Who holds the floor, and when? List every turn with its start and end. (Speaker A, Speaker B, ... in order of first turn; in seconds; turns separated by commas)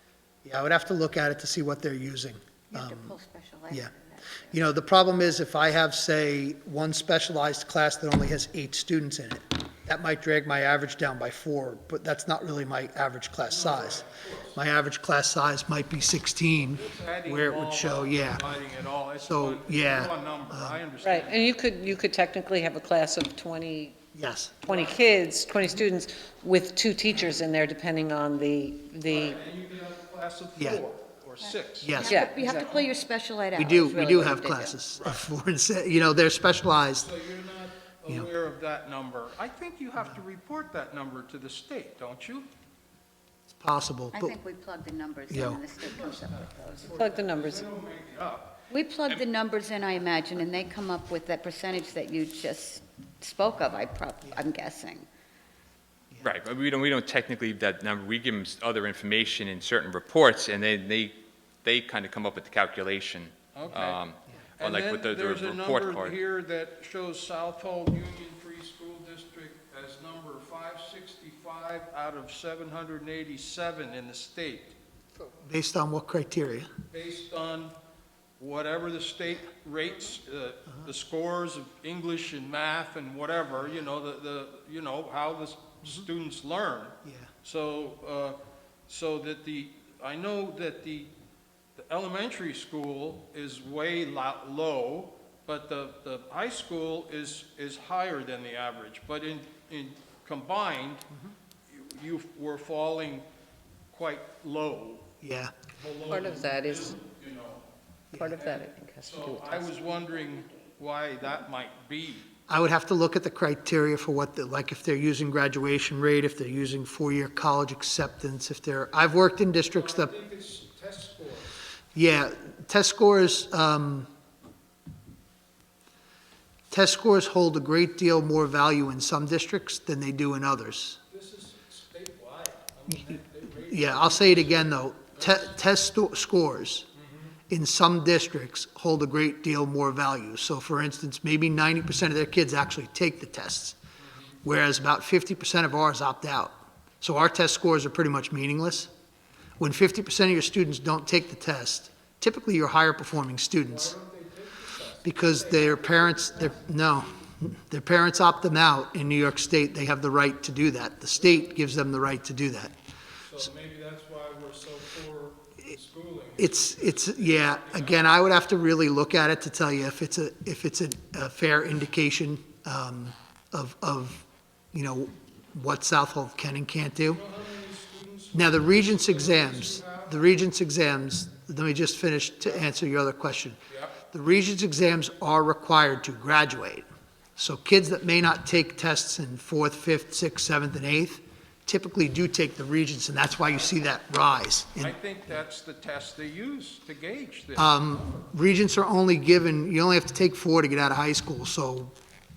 Speaker A: 0.4-3.2, Speaker B: 2.7-4.6, Speaker A: 4.5-18.5, Speaker C: 13.5-14.6, Speaker C: 16.6-21.5, Speaker A: 19.2-20.8, Speaker D: 21.0-24.0, Speaker A: 24.1-24.6, Speaker D: 24.6-29.4, Speaker C: 24.7-25.0, Speaker C: 29.0-32.9, Speaker A: 30.6-30.8, Speaker B: 31.5-34.8, Speaker A: 31.8-32.3, Speaker D: 32.1-32.8, Speaker A: 33.5-37.1, Speaker C: 35.0-35.2, Speaker C: 37.0-42.5, Speaker A: 43.5-44.4, Speaker B: 44.1-47.0, Speaker A: 45.3-45.6, Speaker C: 45.8-49.2, Speaker D: 47.0-47.6, Speaker B: 48.7-55.1, Speaker E: 56.2-66.2, Speaker C: 63.5-64.0, Speaker C: 64.6-74.8, Speaker A: 75.4-76.7, Speaker C: 76.9-77.7, Speaker C: 78.4-88.4, Speaker A: 87.0-87.3, Speaker C: 88.9-91.1, Speaker C: 91.8-101.1, Speaker C: 101.7-103.2, Speaker C: 103.9-105.1, Speaker A: 105.2-105.5, Speaker C: 105.8-107.7, Speaker D: 106.1-107.0, Speaker D: 108.2-109.5, Speaker C: 108.2-112.3, Speaker B: 108.8-109.8, Speaker A: 112.5-120.1, Speaker C: 119.7-121.6, Speaker A: 121.9-124.1, Speaker A: 126.7-131.0, Speaker C: 131.1-135.5, Speaker A: 133.7-136.9, Speaker C: 137.0-137.4, Speaker A: 137.5-143.8, Speaker A: 144.4-148.9, Speaker A: 149.6-153.9, Speaker C: 153.6-156.5, Speaker A: 155.0-162.7, Speaker C: 163.2-168.2, Speaker A: 166.4-177.2, Speaker C: 177.1-180.2, Speaker A: 178.3-183.6, Speaker C: 183.7-184.0, Speaker A: 184.1-186.8, Speaker A: 187.4-195.0, Speaker C: 194.8-197.8, Speaker A: 197.6-201.9